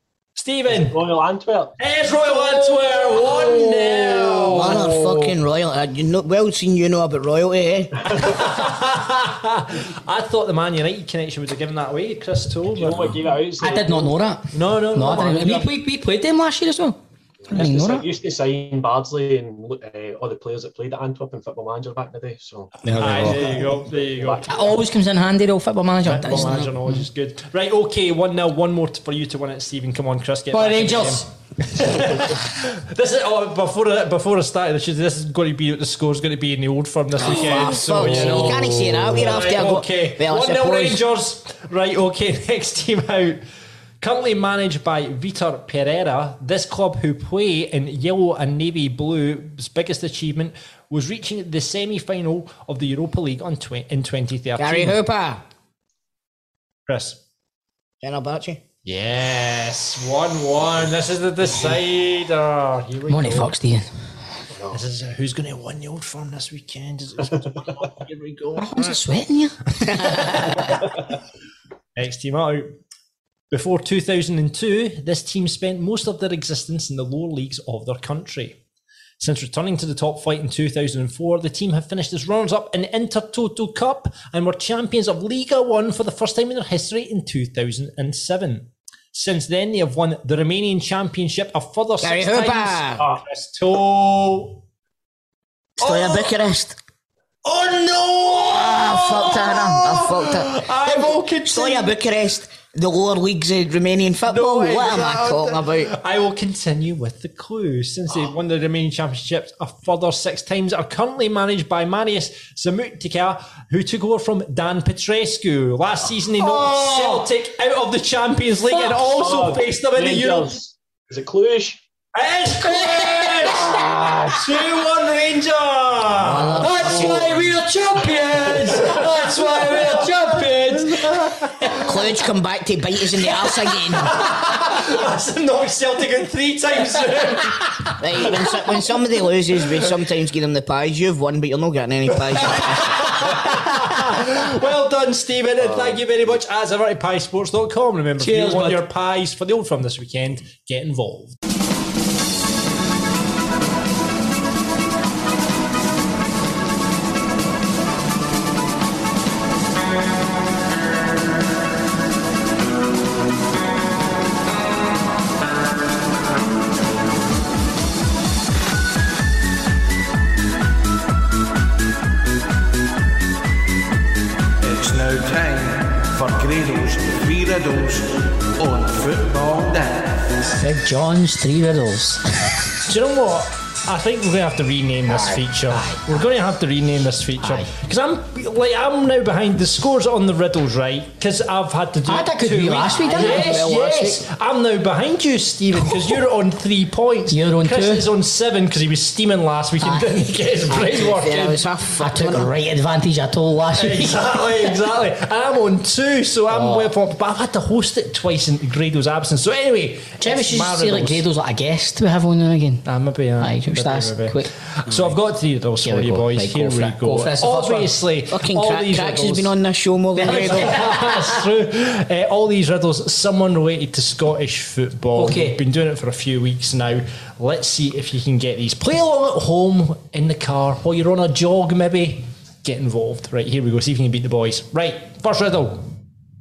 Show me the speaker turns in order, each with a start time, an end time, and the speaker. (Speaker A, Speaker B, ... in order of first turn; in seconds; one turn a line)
Speaker A: 0.4-1.0
Speaker B: 0.7-1.7
Speaker A: 1.8-5.3
Speaker C: 3.2-8.2
Speaker A: 8.2-13.2
Speaker B: 12.7-14.1
Speaker D: 13.6-17.0
Speaker A: 14.5-15.7
Speaker B: 17.5-24.8
Speaker D: 17.5-18.1
Speaker D: 22.8-23.7
Speaker A: 23.0-24.6
Speaker D: 24.5-27.1
Speaker A: 26.0-43.4
Speaker D: 30.5-31.3
Speaker C: 37.2-41.0
Speaker D: 38.0-38.5
Speaker A: 44.0-55.0
Speaker C: 54.6-55.4
Speaker A: 56.9-57.2
Speaker C: 58.0-58.6
Speaker A: 58.8-63.5
Speaker D: 63.1-63.9
Speaker B: 64.5-64.8
Speaker A: 64.7-68.9
Speaker D: 68.6-70.6
Speaker A: 70.0-70.4
Speaker A: 72.0-72.7
Speaker A: 73.5-78.6
Speaker A: 79.2-94.6
Speaker C: 92.0-93.0
Speaker C: 95.8-96.8
Speaker A: 95.8-96.2
Speaker A: 97.4-101.9
Speaker C: 98.4-105.9
Speaker A: 104.3-120.6
Speaker D: 116.4-117.2
Speaker D: 118.7-119.0
Speaker B: 119.1-121.8
Speaker A: 122.1-131.9
Speaker D: 122.6-124.2
Speaker C: 126.1-127.4
Speaker D: 126.6-131.7
Speaker C: 131.8-134.2
Speaker A: 133.3-137.9
Speaker C: 138.0-143.2
Speaker A: 142.4-151.3
Speaker D: 148.2-148.8
Speaker E: 174.6-180.4
Speaker D: 180.4-182.6
Speaker A: 182.9-201.6
Speaker D: 185.1-186.2
Speaker D: 187.4-187.7
Speaker D: 192.1-193.6
Speaker C: 193.2-194.2
Speaker D: 197.3-198.1
Speaker D: 199.8-200.4
Speaker C: 200.7-202.5
Speaker D: 202.0-204.4
Speaker A: 203.7-211.2
Speaker D: 206.5-206.9
Speaker D: 210.2-212.8
Speaker A: 212.8-219.6
Speaker D: 213.4-214.5
Speaker D: 215.8-218.0
Speaker C: 218.3-220.7
Speaker A: 220.2-235.9
Speaker D: 220.2-221.4
Speaker D: 225.1-225.6